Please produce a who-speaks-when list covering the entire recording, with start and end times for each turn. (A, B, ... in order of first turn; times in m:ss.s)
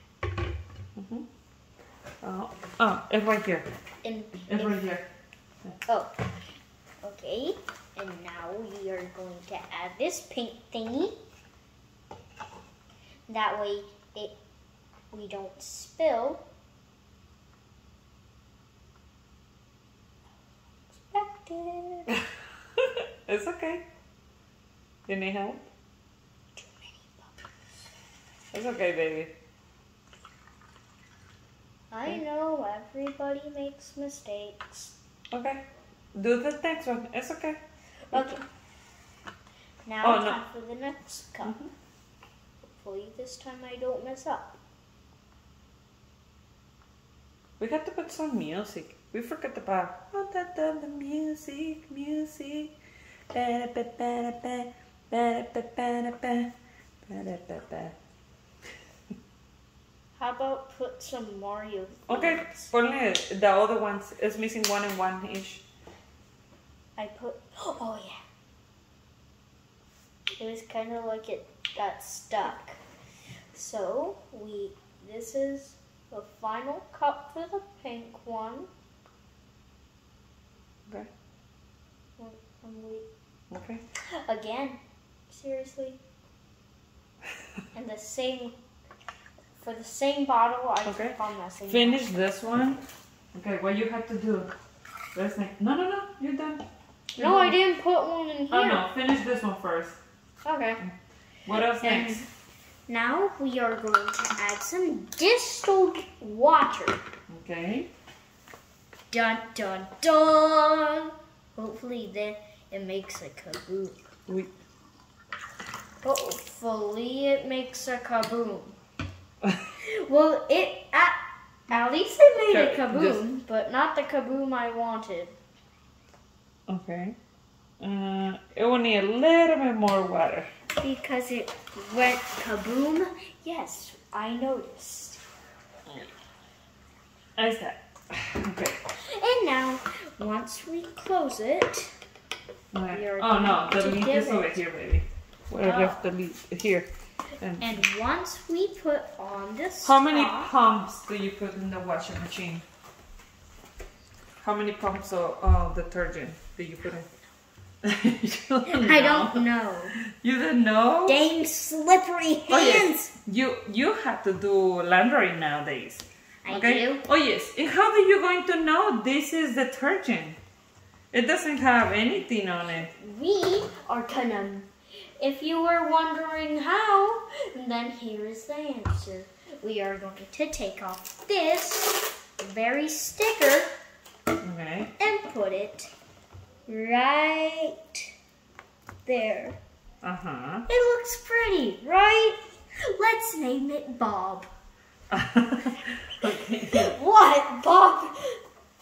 0:01.0-0:01.3 A
0:02.2-0:03.7 A
0:04.0-0:04.8 B
0:04.5-0:05.1 A
0:05.9-0:06.2 B
0:07.0-0:11.2 B
0:13.3-0:14.4 B
0:15.1-0:16.4 B
0:20.9-0:22.1 B
0:22.8-0:23.8 A
0:25.1-0:25.7 A
0:26.6-0:27.4 B
0:28.5-0:29.3 A
0:31.9-0:34.9 B
0:35.3-0:35.6 A
0:36.1-0:37.6 A
0:38.1-0:38.4 B
0:38.1-0:38.4 A
0:39.9-0:41.6 B
0:40.0-0:40.4 A
0:41.4-0:41.7 A
0:42.6-0:44.6 B
0:47.6-0:52.7 A
0:53.3-0:56.5 A
0:57.1-0:58.0 A
1:00.2-1:02.7 B
1:02.1-1:05.6 A
1:07.0-1:08.2 B
1:10.4-1:12.8 B
1:13.5-1:18.7 B
1:22.2-1:23.1 B
1:23.5-1:23.8 A
1:24.2-1:26.0 B
1:27.7-1:28.6 B
1:29.6-1:32.1 B
1:30.8-1:31.2 A
1:31.7-1:32.8 A
1:33.3-1:34.5 A
1:35.1-1:36.6 A
1:37.2-1:37.6 A
1:37.2-1:38.8 B
1:38.5-1:40.0 A
1:40.4-1:40.8 B
1:41.5-1:42.2 A
1:41.8-1:42.3 B
1:42.9-1:47.0 B
1:47.3-1:47.9 A
1:49.1-1:54.0 B
1:56.0-1:58.8 B
1:59.8-2:05.4 B
2:02.5-2:03.2 A
2:06.7-2:07.2 A
2:07.8-2:10.5 A
2:10.8-2:15.2 B
2:17.4-2:18.8 A
2:19.2-2:21.9 B
2:22.7-2:26.9 A
2:22.9-2:24.6 B
2:25.6-2:26.0 B
2:27.4-2:27.8 A
2:27.6-2:30.5 B
2:29.8-2:32.6 A
2:34.4-2:37.1 A
2:37.8-2:39.4 A
2:38.7-2:40.0 B
2:40.0-2:41.2 A
2:41.1-2:43.1 B
2:42.5-2:50.4 A
2:46.4-2:47.0 B
2:51.1-2:52.9 A
2:52.8-3:03.7 B
3:04.4-3:04.9 A
3:05.0-3:05.9 B
3:06.7-3:08.1 B
3:09.1-3:09.6 B
3:10.0-3:10.7 A
3:10.7-3:14.5 B
3:15.1-3:17.0 A
3:16.7-3:18.4 B